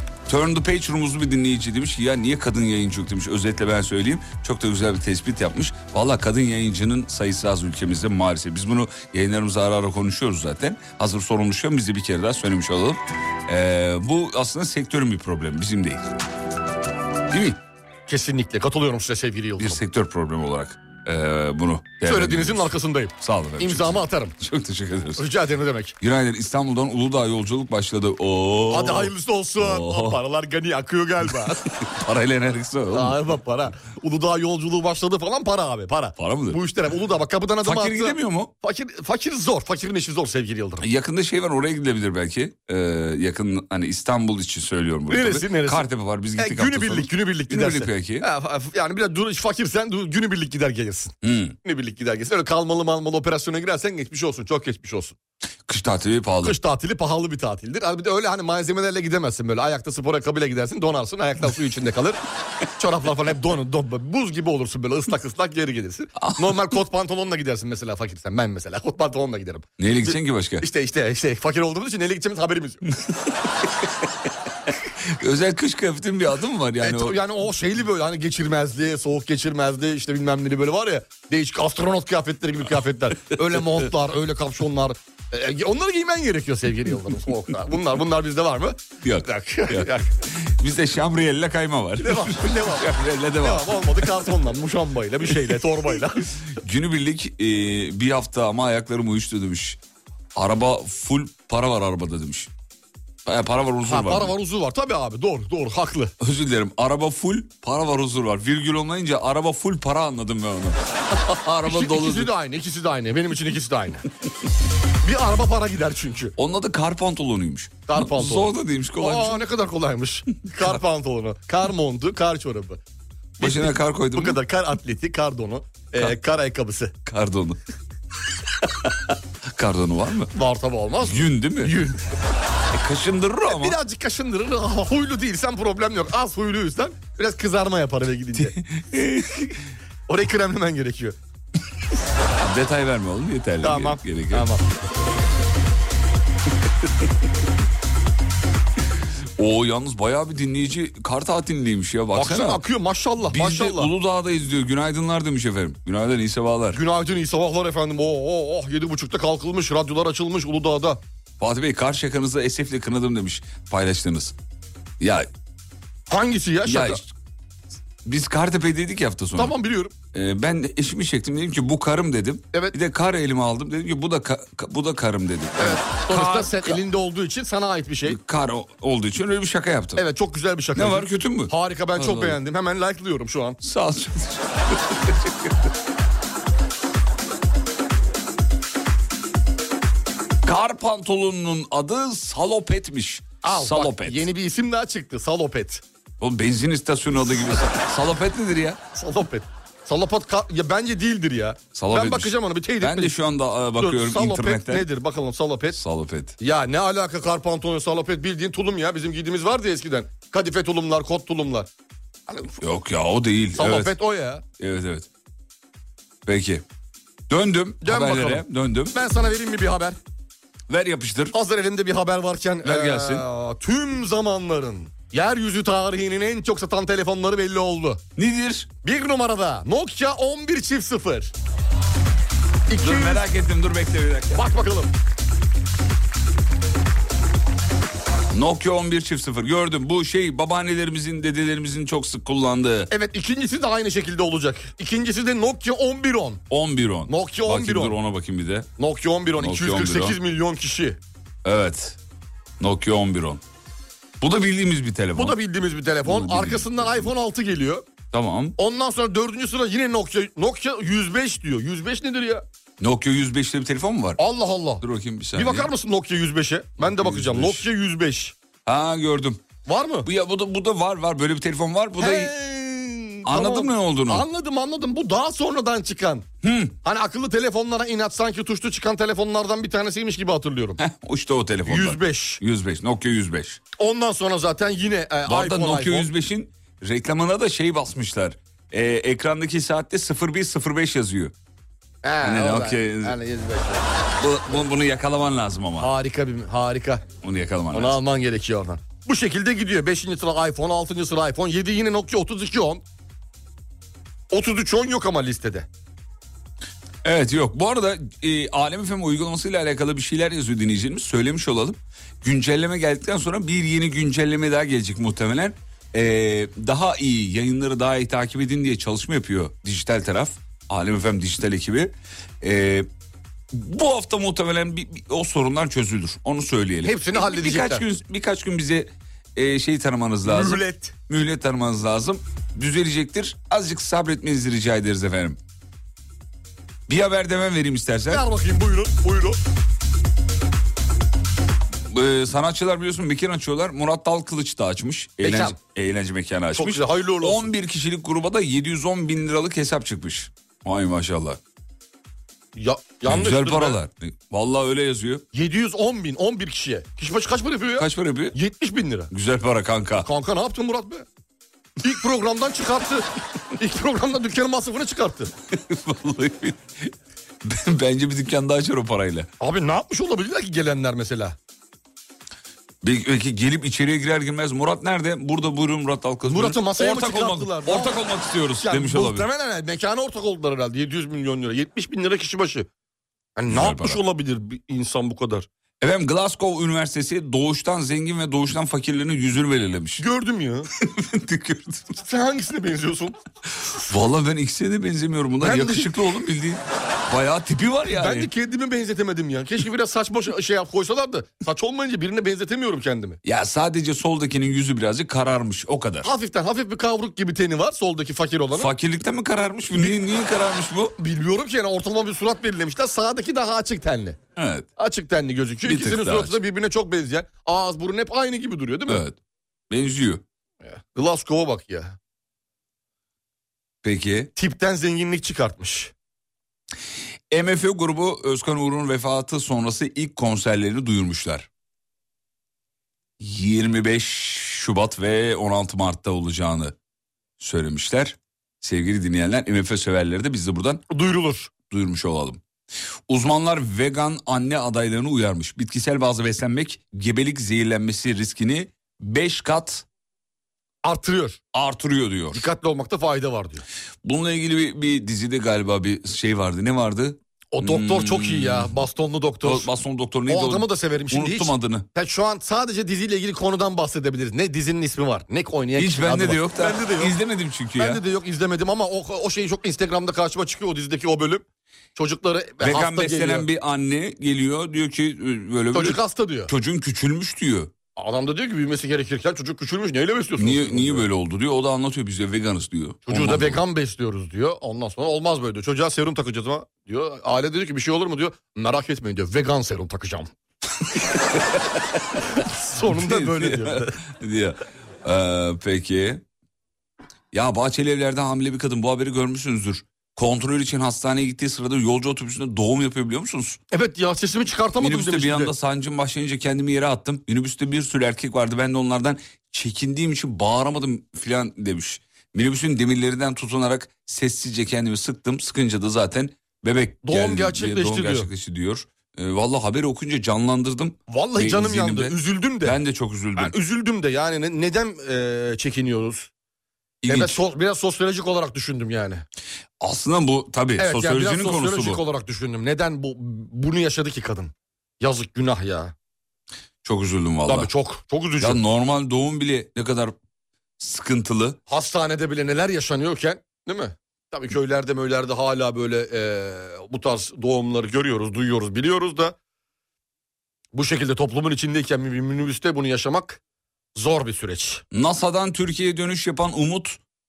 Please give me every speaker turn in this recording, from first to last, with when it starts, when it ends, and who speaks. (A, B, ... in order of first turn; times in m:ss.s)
0:00.3-0:16.0 A
0:17.3-0:17.6 A
0:18.1-0:19.8 B
0:19.6-0:25.3 A
0:22.0-0:24.3 B
0:25.2-0:26.0 B
0:26.0-0:30.2 A
0:28.7-0:31.6 B
0:31.4-0:33.3 A
0:32.9-0:40.8 B
0:36.2-0:36.6 A
0:37.6-0:38.5 A
0:40.8-0:48.3 A
0:45.1-0:45.8 B
0:46.4-0:55.2 B
0:51.2-0:51.6 A
0:55.7-0:56.6 A
0:56.4-1:02.2 B
1:02.8-1:12.8 B
1:06.2-1:06.7 A
1:09.8-1:10.7 A
1:13.1-1:14.1 A
1:15.0-1:17.2 A
1:16.8-1:30.1 B
1:29.0-1:34.2 A
1:32.0-1:32.9 B
1:33.4-1:36.3 B
1:36.6-1:39.8 A
1:40.3-1:42.5 A
1:43.2-1:44.4 A
1:43.8-1:46.1 B
1:46.2-1:52.3 A
1:51.7-1:54.0 B
1:55.0-1:56.3 B
1:56.4-1:59.4 A
1:57.9-2:02.8 B
2:03.4-2:04.4 A
2:03.4-2:06.9 B
2:07.0-2:07.6 A
2:08.8-2:10.3 A
2:10.3-2:12.0 B
2:11.0-2:11.8 A
2:12.7-2:13.8 A
2:13.5-2:18.5 B
2:18.4-2:19.6 A
2:20.1-2:21.2 B
2:22.4-2:24.5 A
2:23.6-2:24.6 B
2:29.4-2:32.6 A
2:32.1-2:33.9 B
2:33.2-2:36.8 A
2:36.7-2:41.0 B
2:41.4-2:44.3 A
2:45.0-2:45.3 A
2:46.1-2:47.0 B
2:46.6-2:47.1 A
2:48.0-2:49.5 A
2:49.4-2:49.9 B
2:50.1-2:56.8 A
2:55.6-2:58.2 B
2:58.0-3:00.1 A
3:00.0-3:03.6 B
3:00.7-3:02.4 A
3:03.6-3:05.7 A
3:10.4-3:14.3 A
3:13.4-3:15.8 B
3:16.2-3:18.8 A
3:18.9-3:23.1 B
3:21.7-3:24.9 A
3:23.8-3:25.8 B
3:25.7-3:26.4 A
3:26.4-3:31.7 B
3:32.3-3:32.6 B
3:32.6-3:33.9 A
3:33.6-3:34.4 B
3:34.6-3:35.1 A
3:36.2-3:36.6 A
3:37.3-3:39.0 A
3:37.8-3:40.0 B
3:40.7-3:41.3 A
3:41.3-3:48.0 B
3:42.6-3:43.2 A
3:48.2-3:48.7 A
3:48.8-3:51.3 B
3:52.7-3:53.2 B
3:52.7-3:54.5 A
3:54.3-3:54.9 B
3:58.3-4:02.9 A
4:02.9-4:06.4 B
4:06.5-4:08.7 A
4:07.1-4:07.9 B
4:08.8-4:11.0 B
4:09.4-4:10.2 A
4:11.4-4:12.0 A
4:12.6-4:13.4 A
4:14.2-4:15.4 A
4:15.1-4:17.8 B
4:16.0-4:17.1 A
4:18.1-4:18.6 A
4:18.6-4:22.4 B
4:22.8-4:24.2 A
4:24.2-4:24.8 B
4:24.8-4:25.7 A
4:25.3-4:28.3 B
4:26.8-4:27.7 A
4:28.6-4:29.4 A
4:29.6-4:30.1 B
4:30.0-4:32.3 A
4:32.0-4:36.3 B
4:33.2-4:34.3 A
4:36.4-4:36.8 A
4:36.8-4:40.8 B
4:40.8-4:43.6 A
4:41.6-4:42.4 B
4:43.8-4:46.1 B
4:45.2-4:51.3 A
4:52.0-4:53.9 B
4:52.2-4:53.2 A
4:54.2-4:55.9 A
4:55.8-4:57.0 B
4:57.2-4:58.0 A
4:57.7-5:02.8 B
5:04.3-5:05.7 B
5:07.0-5:22.9 A
5:23.5-5:35.4 A
5:26.8-5:27.8 B
5:30.2-5:30.9 B
5:36.9-5:38.2 A
5:38.1-5:39.4 B
5:41.9-5:51.4 A
5:45.2-5:45.6 B
5:46.5-5:47.5 B
5:52.5-5:53.8 B
5:53.0-5:55.2 A
5:55.3-5:59.1 B
5:57.8-5:58.4 A
5:59.1-6:00.1 A
6:00.0-6:01.0 B
6:01.8-6:05.3 B
6:05.5-6:06.9 A
6:07.4-6:09.3 A
6:09.4-6:11.4 B
6:12.8-6:19.3 A
6:16.3-6:18.0 B
6:18.6-6:22.7 B
6:23.4-6:25.5 B
6:23.5-6:24.0 A
6:25.8-6:30.0 A
6:30.0-6:30.7 B
6:30.8-6:32.0 A
6:32.0-6:33.2 B
6:33.8-6:38.3 A
6:35.4-6:36.1 B
6:37.9-6:43.2 B
6:43.2-6:46.1 A
6:46.0-6:48.7 B
6:48.5-6:51.0 A
6:51.0-6:54.2 B
6:54.4-6:54.7 A
6:54.8-6:59.0 B
6:55.6-6:56.4 A
6:58.9-6:59.2 A
6:59.7-7:00.2 A
7:00.6-7:02.0 B
7:03.8-7:04.3 A
7:04.4-7:05.9 B
7:07.3-7:11.5 A
7:13.2-7:16.7 A
7:17.4-7:20.8 A
7:20.9-7:21.5 B
7:21.7-7:22.4 A
7:23.1-7:29.8 A
7:30.8-7:31.4 B
7:31.5-7:32.4 A
7:32.3-7:33.6 B
7:34.0-7:38.8 A
7:37.5-7:39.7 B
7:39.4-7:41.9 A
7:40.3-7:47.1 B
7:45.7-7:48.0 A
7:47.8-7:53.5 B
7:52.6-7:57.7 A
7:55.7-7:56.5 B
7:58.0-8:01.0 B
8:00.4-8:03.6 A
8:03.1-8:10.3 B
8:11.4-8:11.8 A
8:12.4-8:14.0 B
8:12.8-8:16.2 A
8:17.3-8:23.6 A
8:23.7-8:25.5 B
8:24.8-8:43.5 A
8:37.0-8:38.3 B
8:41.1-8:42.8 B
8:43.4-8:46.3 B
8:47.0-8:47.4 A
8:47.1-8:49.2 B
8:49.8-8:52.0 A
8:50.8-8:55.9 B
8:56.8-8:57.7 A
8:57.5-8:58.6 B
8:58.4-9:00.1 A
9:00.8-9:01.6 A
9:01.7-9:09.4 B
9:10.7-9:13.4 B
9:13.9-9:14.8 B
9:14.9-9:17.0 A